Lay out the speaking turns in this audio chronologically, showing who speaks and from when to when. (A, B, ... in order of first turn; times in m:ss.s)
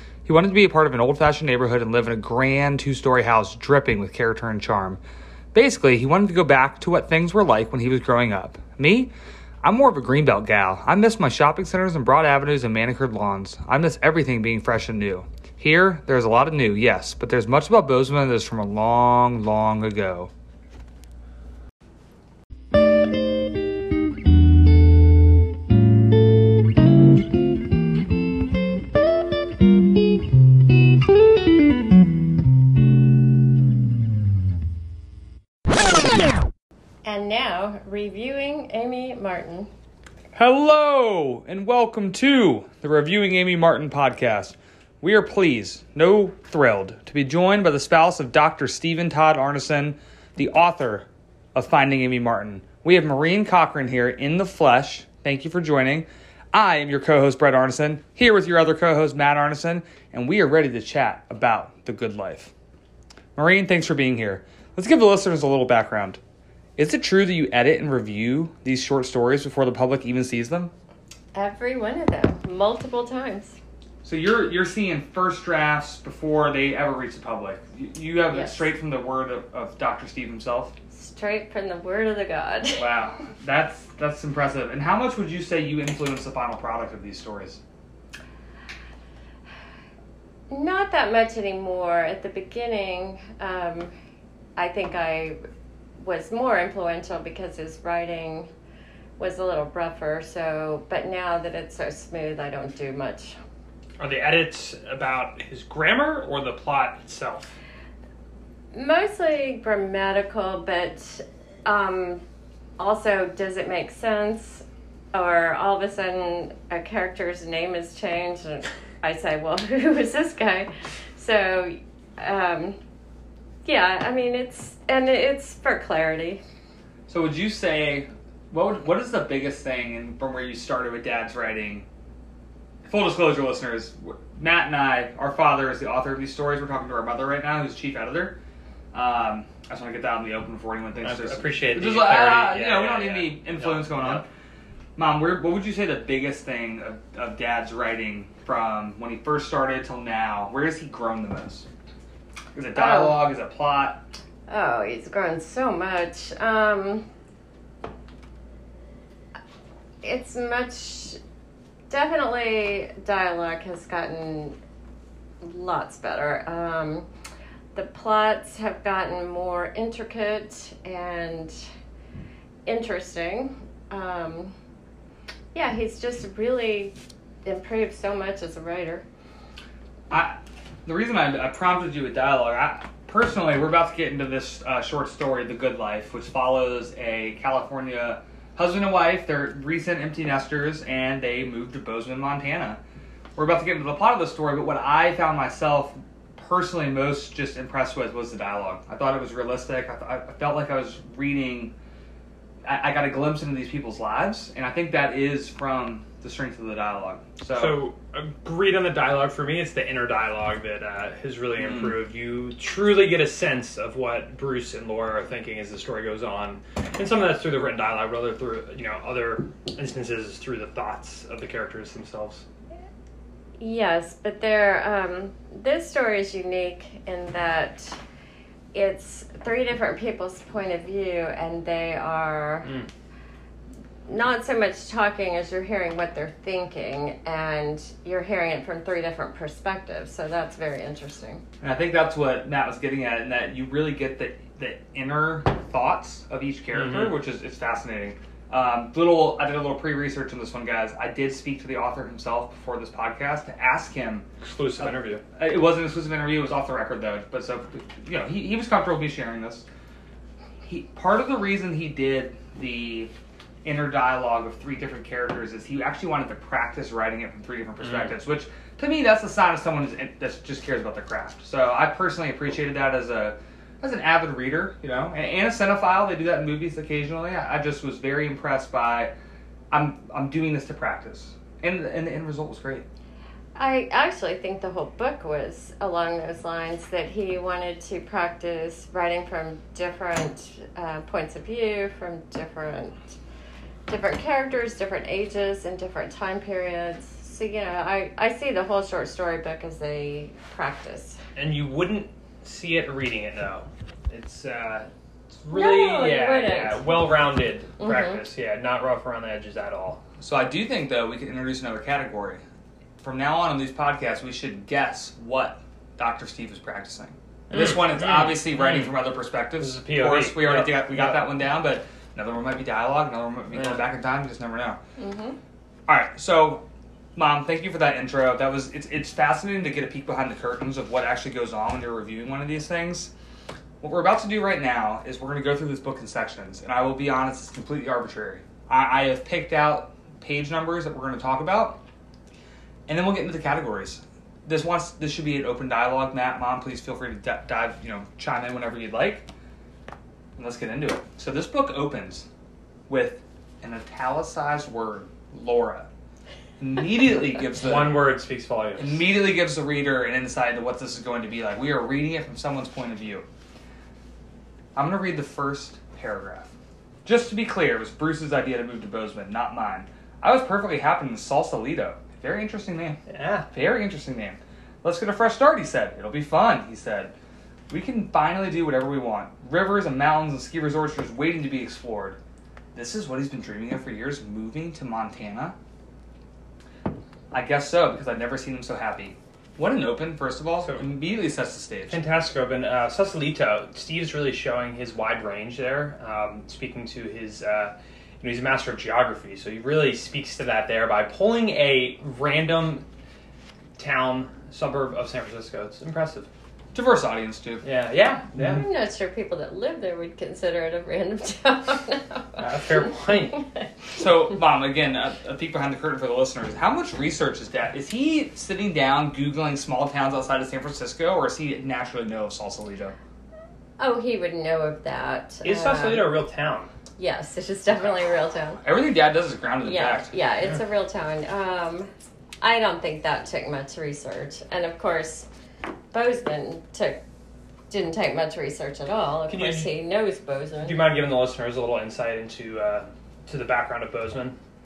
0:00.3-0:05.0 A
0:05.5-0:09.1 A
0:09.6-0:20.3 A
0:37.0-0:39.7 B
0:40.3-1:02.5 A
1:03.4-1:06.2 A
1:06.8-1:10.7 A
1:11.3-1:13.6 B
1:14.0-1:20.7 A
1:18.3-1:18.6 B
1:20.9-1:22.9 B
1:22.8-1:27.6 A
1:30.5-1:33.9 B
1:34.6-1:35.4 B
1:36.0-1:38.5 B
1:39.2-1:43.4 B
1:44.0-1:47.5 C
1:48.7-1:52.2 B
1:52.8-2:02.8 B
2:03.6-2:06.4 B
2:07.1-2:11.9 A
2:12.8-2:18.4 A
2:18.9-2:24.2 A
2:21.0-2:24.2 C
2:25.0-2:31.7 A
2:32.5-2:34.0 A
2:32.7-2:33.3 B
2:34.5-2:37.0 B
2:40.0-2:41.2 B
2:41.9-2:44.6 B
2:45.4-2:47.1 B
2:47.8-2:51.6 B
2:52.7-2:54.6 B
2:55.5-2:59.0 B
3:00.1-3:12.8 A
3:13.4-3:21.7 A
3:22.6-3:27.8 A
3:27.5-3:42.4 C
3:31.6-3:32.0 A
3:43.6-3:48.0 B
3:48.7-3:52.7 B
3:54.1-4:01.4 B
4:01.6-4:14.3 A
4:06.8-4:07.1 C
4:14.4-4:15.2 C
4:14.8-4:19.6 A
4:20.6-4:23.1 A
4:23.6-4:39.1 A
4:39.7-4:42.9 A
4:43.6-4:53.0 B
4:53.9-5:01.2 B
5:01.4-5:04.9 C
5:05.4-5:10.0 C
5:05.5-5:07.0 B
5:07.8-5:08.2 B
5:10.2-5:12.4 A
5:13.0-5:24.8 A
5:17.5-5:18.9 C
5:19.6-5:21.3 C
5:23.5-5:23.8 C
5:25.0-5:25.4 B
5:25.9-5:26.6 A
5:27.2-5:33.1 A
5:33.8-5:41.8 A
5:42.9-5:49.3 A
5:50.4-5:52.3 A
5:52.9-5:55.9 A
5:56.6-5:58.1 A
5:57.5-5:59.0 C
5:58.8-6:03.3 A
6:04.8-6:06.5 A
6:07.0-6:13.0 A
6:13.1-6:13.5 C
6:13.5-6:17.1 A
6:17.7-6:22.2 A
6:22.8-6:25.6 A
6:27.3-6:32.0 A
6:31.9-6:42.8 C
6:43.8-6:46.3 C
6:46.7-6:47.6 A
6:47.6-6:48.6 C
6:48.4-6:53.4 B
6:52.4-6:53.4 C
6:53.9-7:03.0 A
7:03.8-7:06.2 B
7:05.4-7:06.7 C
7:07.0-7:08.6 B
7:08.6-7:10.1 A
7:09.6-7:11.9 B
7:12.4-7:15.3 B
7:15.9-7:17.0 B
7:17.7-7:20.9 B
7:19.3-7:19.7 C
7:20.6-7:24.4 C